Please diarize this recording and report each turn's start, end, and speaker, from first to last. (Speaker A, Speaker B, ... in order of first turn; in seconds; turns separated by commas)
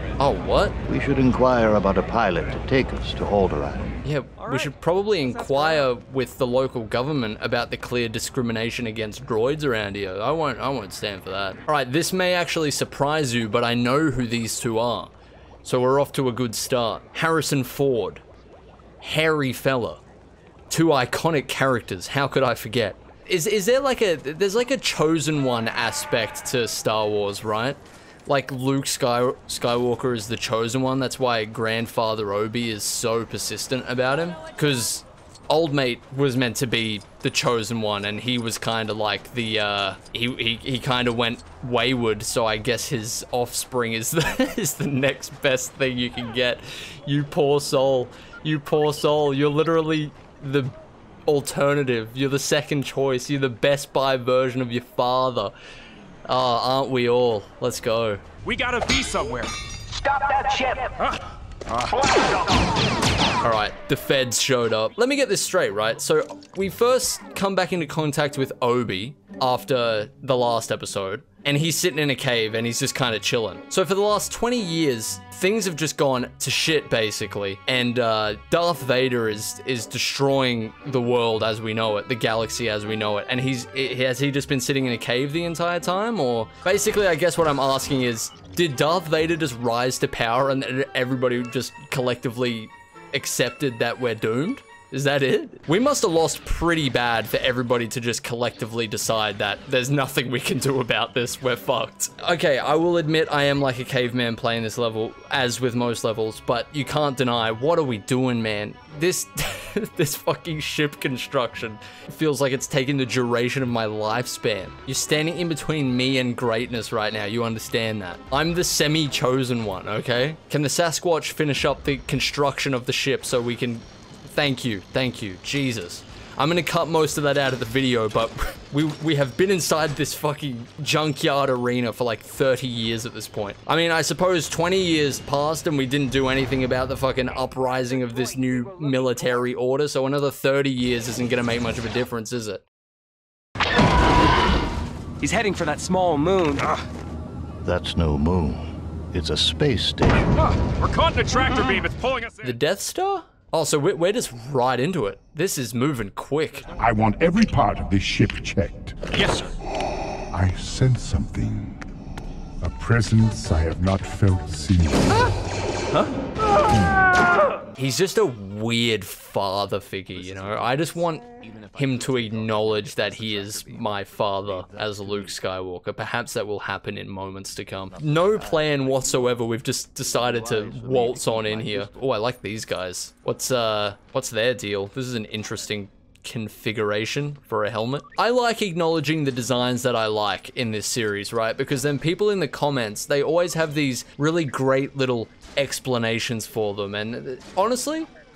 Speaker A: 0.2-0.8, Speaker B: 0.8-4.0, Speaker A: 4.0-15.1, Speaker C: 4.4-5.9, Speaker A: 15.6-18.2, Speaker A: 19.0-20.0, Speaker A: 20.7-50.7, Speaker A: 51.3-55.5, Speaker A: 56.3-58.2, Speaker D: 58.4-59.5, Speaker D: 60.9-61.2, Speaker D: 61.7-62.2, Speaker A: 63.4-142.6, Speaker C: 145.2-146.7, Speaker B: 147.6-150.2, Speaker D: 150.4-152.6, Speaker A: 152.4-156.7, Speaker E: 156.8-159.1, Speaker D: 159.1-159.5, Speaker E: 160.3-161.8, Speaker E: 162.6-165.2, Speaker E: 166.7-167.0, Speaker A: 167.8-198.1, Speaker B: 172.5-173.1, Speaker B: 174.4-175.3, Speaker B: 177.9-179.2, Speaker B: 180.0-181.9